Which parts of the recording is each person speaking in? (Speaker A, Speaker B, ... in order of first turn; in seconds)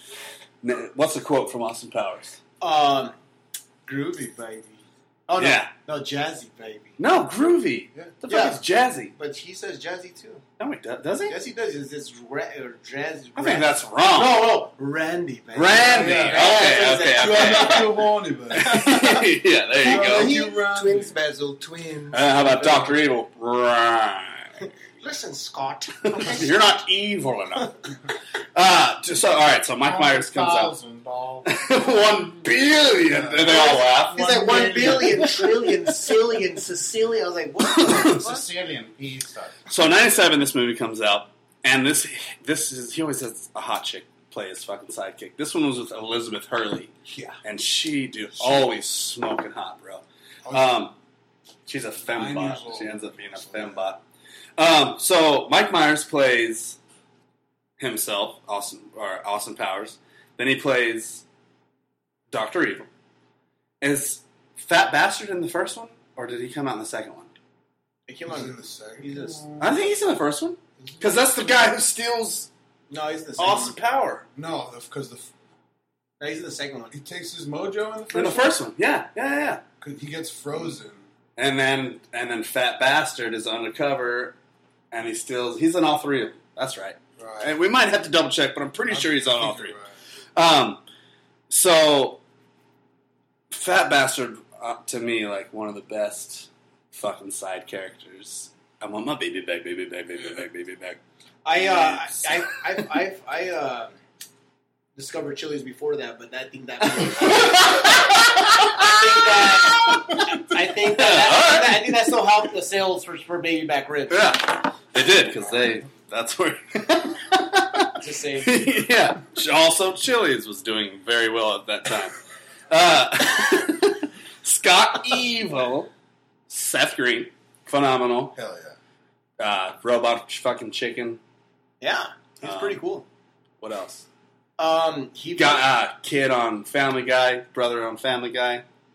Speaker A: 0.6-2.4, 5.4-5.7, 7.0-9.1, 10.6-11.4, 13.4-14.5, 15.5-20.4, 22.1-24.5, 26.1-27.8, 28.6-30.7, 31.4-35.5, 37.8-38.2, 39.7-51.0, 51.7-54.0, 54.6-56.8, 57.8-61.2, 62.3-62.9, 63.8-67.3, 69.6-72.5, 73.4-74.2, 78.1-79.6, 81.4-84.3, 84.9-89.8, 90.3-90.8, 91.5-92.2, 93.5-101.0, 101.6-102.0, 107.0-112.0, 114.1-122.2, 122.7-125.9, 126.5-128.4, 129.4-131.2, 132.4-132.8, 133.6-134.1, 135.4-138.6
Speaker B: 2.6-3.1, 3.9-7.0, 8.3-8.6, 9.1-10.4, 11.3-19.3, 19.8-22.9, 24.6-26.7, 33.5-38.5, 68.1-69.5, 72.9-73.7, 76.2-77.0, 101.5-103.9, 105.0-114.4, 118.0-118.7, 131.8-133.1, 134.6-135.6
Speaker C: 15.8-18.9, 19.8-21.1, 29.8-31.5, 33.0-35.3, 38.0-39.6, 47.1-47.4, 50.5-50.8, 52.0-53.8, 68.3-69.7, 70.8-71.2, 74.4-75.3, 76.9-78.5, 79.8-81.1, 87.2-87.5, 88.9-89.9, 128.3-128.8